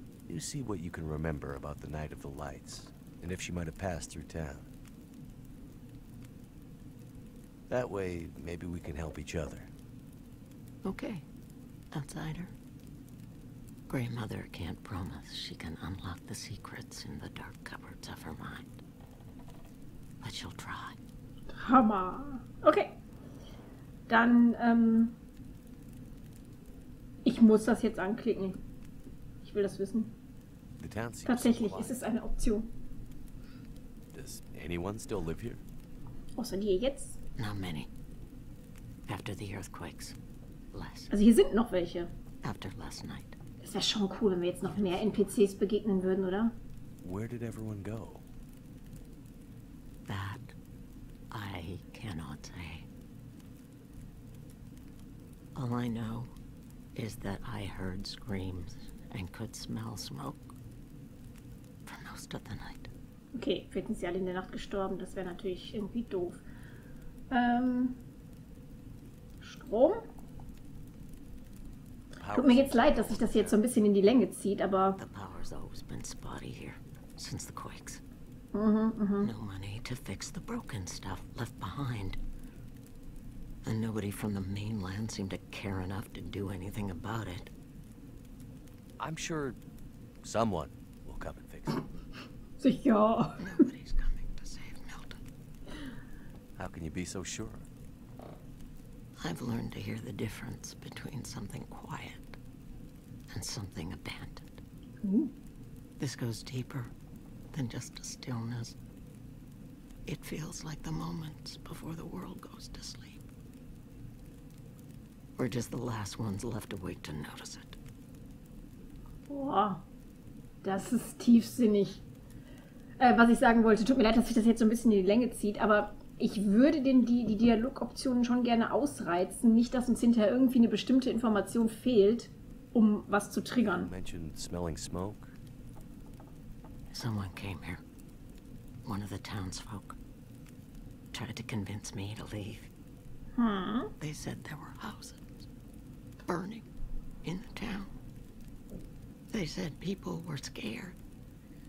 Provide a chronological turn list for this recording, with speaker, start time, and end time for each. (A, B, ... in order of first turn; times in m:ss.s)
0:00.3-0:04.7 A
0:07.7-0:09.7 A
0:10.8-0:11.2 B
0:11.9-0:12.5 B
0:13.9-0:18.8 B
0:20.2-0:21.0 B
0:21.6-0:23.0 C
0:24.1-0:25.2 C
0:27.2-0:28.6 C
0:29.4-0:30.1 C
0:30.8-0:32.0 A
0:31.2-0:32.7 C
0:34.1-0:35.6 A
0:36.4-0:37.2 C
0:37.4-0:37.9 B
0:39.1-0:40.2 B
0:40.7-0:41.1 B
0:41.1-0:42.1 C
0:42.4-0:43.4 B
0:43.6-0:46.5 C
0:47.0-0:48.2 A
0:50.1-0:50.5 B
0:51.3-0:52.9 B
0:55.5-0:56.3 B
0:56.9-1:00.4 B
1:01.8-1:02.9 B
1:03.3-1:06.4 C
1:07.3-1:08.0 C
1:09.4-1:10.0 C
1:12.2-1:13.6 A
1:12.3-1:15.0 C
1:15.0-1:18.0 B
1:18.5-1:19.3 C
1:19.2-1:22.2 B
1:23.6-1:27.5 B
1:29.0-1:29.6 A
1:30.2-1:31.8 A
1:32.6-1:33.6 C
1:33.4-1:35.2 B
1:36.6-1:37.6 A
1:39.2-1:42.4 B
1:43.3-1:44.6 B
1:45.0-1:45.3 C
1:46.0-1:46.9 B
1:47.5-1:48.8 B
1:50.0-1:53.2 B
1:55.4-1:57.8 B
1:59.3-1:59.8 C
2:00.6-2:02.0 C
2:03.0-2:13.9 C
2:13.6-2:15.3 A
2:16.9-2:17.8 B
2:18.8-2:20.0 B
2:21.1-2:22.7 B
2:23.4-2:23.9 C
2:24.0-2:25.5 B
2:26.2-2:26.6 B
2:27.2-2:27.9 B
2:29.3-2:31.0 B